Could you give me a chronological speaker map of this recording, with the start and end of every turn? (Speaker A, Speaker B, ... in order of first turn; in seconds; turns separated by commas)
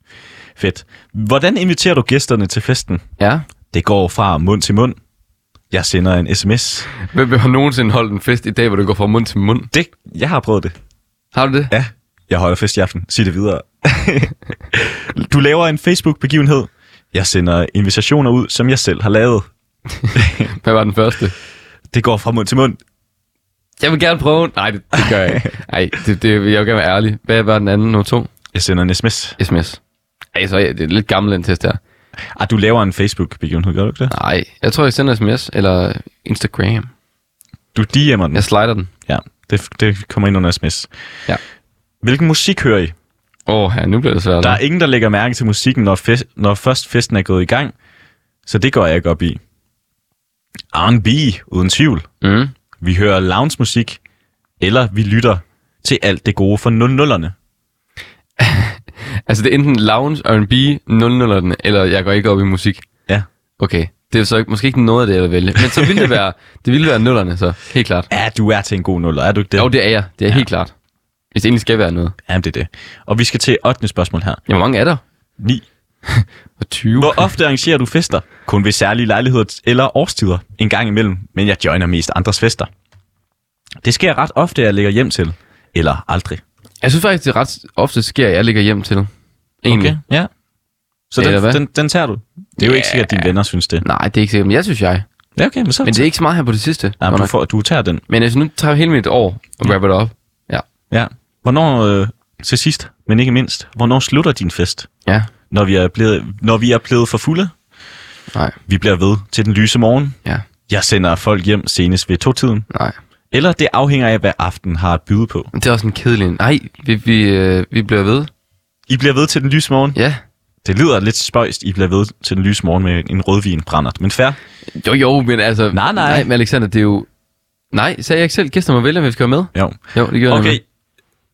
Speaker A: 0.6-3.0, Speaker B: 3.2-3.5, Speaker A: 3.7-5.0, Speaker A: 5.7-6.9, Speaker B: 7.1-9.7, Speaker A: 9.7-10.8, Speaker B: 11.3-11.7, Speaker A: 11.7-19.5, Speaker B: 20.0-21.3, Speaker A: 20.1-20.5, Speaker A: 21.9-22.8, Speaker B: 23.8-28.3, Speaker A: 28.5-29.4, Speaker B: 29.4-29.8, Speaker B: 30.4-31.8, Speaker A: 32.3-34.1, Speaker B: 34.1-36.9, Speaker A: 37.7-38.5, Speaker B: 38.3-38.9, Speaker A: 39.1-40.9, Speaker A: 42.0-43.0, Speaker B: 43.5-44.6, Speaker A: 44.4-47.7, Speaker A: 48.5-49.4, Speaker A: 50.7-52.1, Speaker B: 52.2-52.5, Speaker A: 52.8-54.0, Speaker A: 54.6-57.4, Speaker B: 58.4-62.9, Speaker B: 63.6-68.1, Speaker A: 65.6-66.1, Speaker A: 68.1-69.7, Speaker B: 69.6-70.7, Speaker B: 71.3-72.2, Speaker A: 72.3-74.4, Speaker B: 74.5-75.0, Speaker A: 75.4-75.6, Speaker B: 76.1-77.3, Speaker A: 77.0-82.7, Speaker A: 83.8-86.4, Speaker B: 86.8-89.1, Speaker B: 89.6-90.0, Speaker A: 89.7-90.3, Speaker A: 91.1-93.8, Speaker B: 91.2-91.6, Speaker B: 92.6-93.3, Speaker B: 93.8-95.0, Speaker A: 95.4-96.1, Speaker B: 95.8-97.3, Speaker A: 97.0-98.0, Speaker B: 98.1-100.6, Speaker A: 100.9-104.9, Speaker A: 105.5-107.5, Speaker A: 108.7-110.2, Speaker A: 110.7-112.7, Speaker B: 112.7-113.0, Speaker A: 113.3-115.5, Speaker B: 115.5-118.3, Speaker A: 118.9-120.0, Speaker B: 120.0-120.2, Speaker A: 120.6-124.4, Speaker B: 124.7-127.1, Speaker A: 125.7-126.3, Speaker B: 127.7-130.6, Speaker A: 129.5-130.6